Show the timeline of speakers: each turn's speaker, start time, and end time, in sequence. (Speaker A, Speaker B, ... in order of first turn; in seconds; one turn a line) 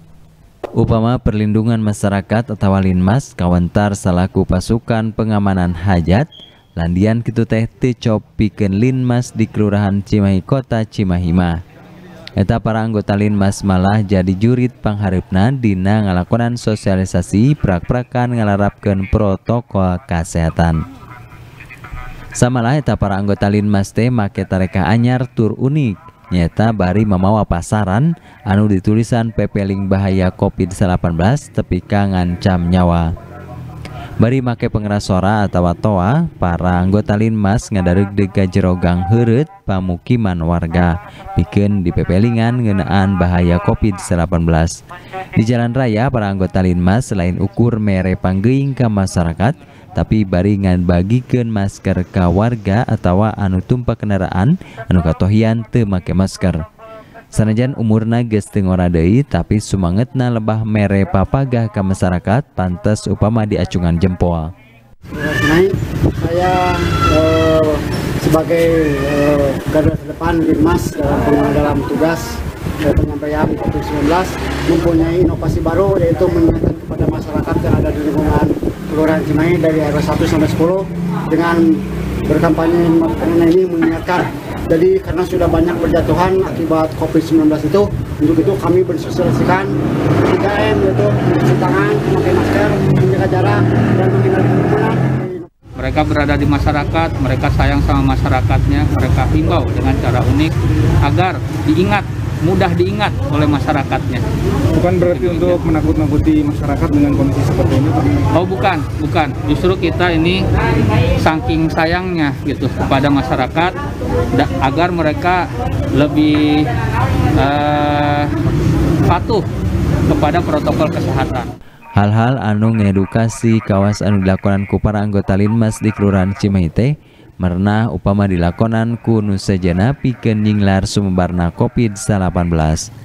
Speaker A: 0.8-11.6
Speaker A: 12.4-20.8
Speaker A: 22.4-33.1
Speaker A: 34.2-44.8
Speaker A: 45.3-56.6
Speaker A: 57.3-64.5
Speaker B: 65.1-95.5
Speaker C: 95.8-104.2
Speaker D: 104.7-108.1
Speaker C: 105.0-105.6
Speaker C: 108.3-110.4
Speaker C: 111.2-113.8
Speaker C: 114.3-116.7
Speaker C: 117.3-118.3
Speaker C: 119.0-119.4
Speaker C: 120.1-121.5
Speaker A: 122.0-132.9